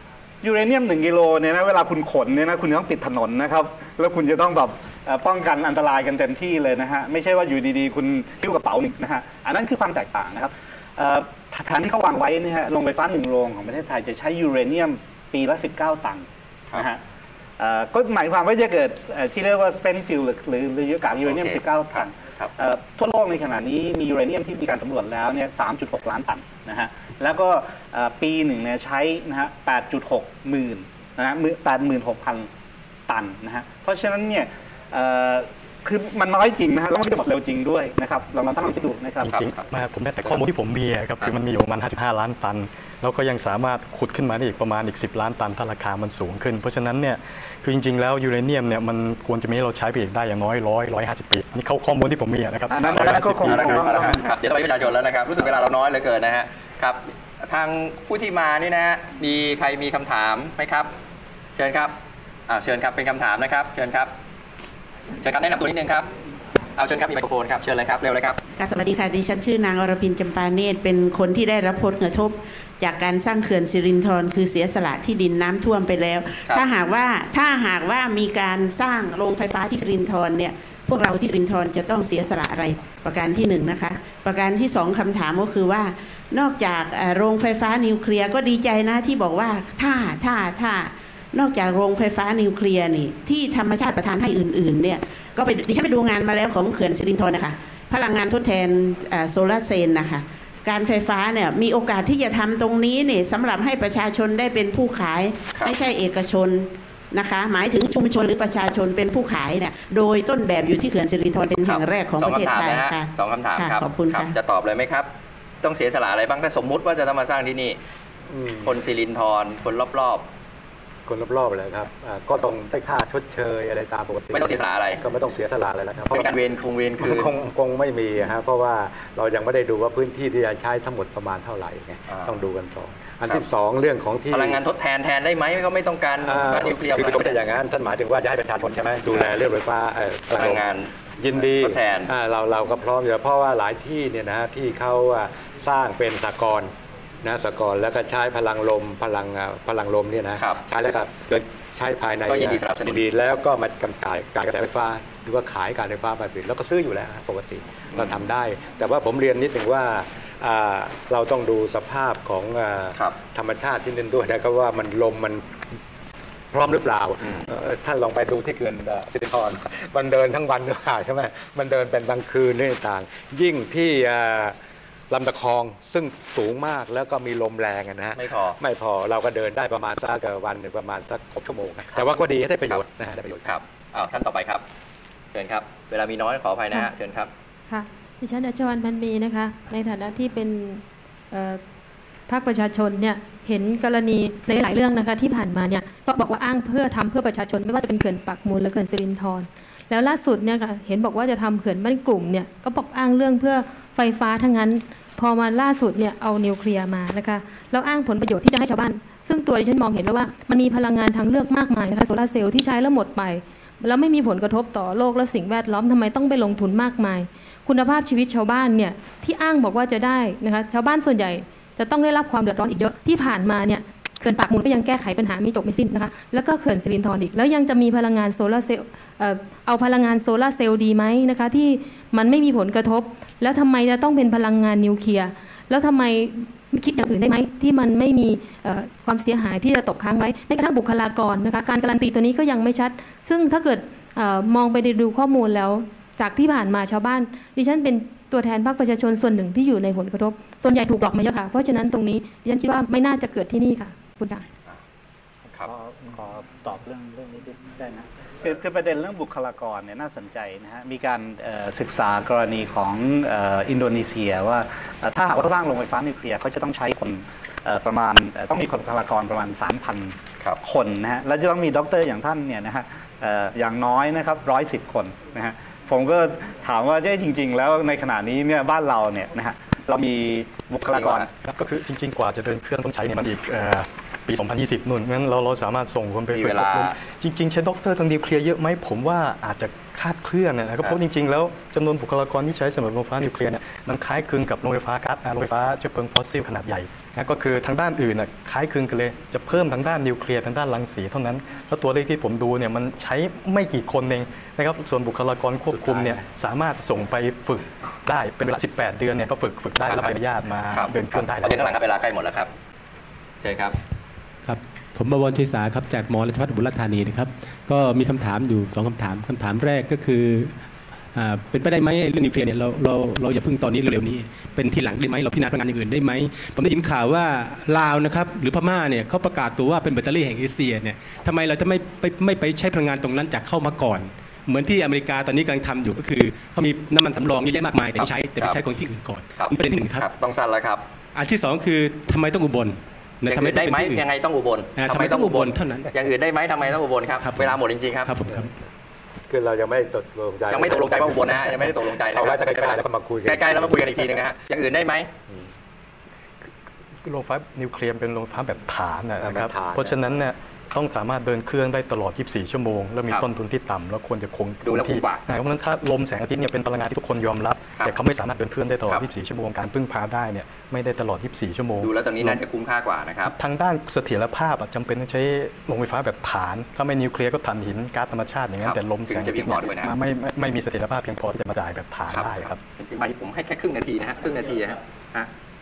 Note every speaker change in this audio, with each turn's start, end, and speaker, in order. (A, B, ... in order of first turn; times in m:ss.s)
0:00.4-0:17.0 A
0:17.6-0:32.5 A
0:21.2-0:22.5 B
0:33.1-0:39.3 A
0:39.2-0:54.2 C
0:39.2-0:39.7 B
0:52.7-0:54.3 A
0:52.8-1:00.9 B
1:01.5-1:01.9 B
1:02.5-1:04.1 B
1:05.2-1:06.1 B
1:06.8-1:08.4 B
1:08.6-1:54.4 D
1:51.6-1:55.1 B
1:55.6-1:57.8 B
1:58.3-1:58.7 E
1:58.6-2:00.3 B
2:01.1-2:06.4 E
2:04.3-2:05.0 B
2:06.1-2:07.3 B
2:07.0-2:14.6 E
2:12.1-2:12.3 B
2:14.3-2:17.4 B
2:16.2-2:20.6 E
2:20.3-2:22.1 B
2:21.2-2:26.7 E
2:27.2-2:45.4 E
2:32.3-2:33.0 B
2:37.9-2:38.2 B
2:46.5-2:54.6 E
2:55.1-3:03.6 E
2:58.1-2:58.6 B
3:03.4-3:04.6 B
3:05.3-3:07.3 B
3:07.7-3:11.6 F
3:12.3-4:14.4 F
4:15.6-4:41.3 A
4:40.8-4:41.3 B
4:41.4-5:11.7 C
4:46.3-4:47.0 B
5:05.9-5:06.2 B
5:10.7-5:12.5 B
5:13.4-5:13.8 B
5:14.4-5:20.5 G
5:21.1-5:40.1 G
5:37.9-5:38.6 B
5:39.4-5:40.8 B
5:41.1-5:44.1 G
5:43.2-5:48.1 B
5:44.8-5:45.9 G
5:47.2-5:48.5 G
5:48.2-5:48.5 E
5:49.3-5:54.2 E
5:50.5-5:55.1 B
5:57.0-6:12.4 C
5:59.2-6:00.2 E
6:04.6-6:05.2 B
6:11.8-6:13.3 B
6:13.2-6:22.6 C
6:18.6-6:19.9 B
6:22.1-6:25.3 B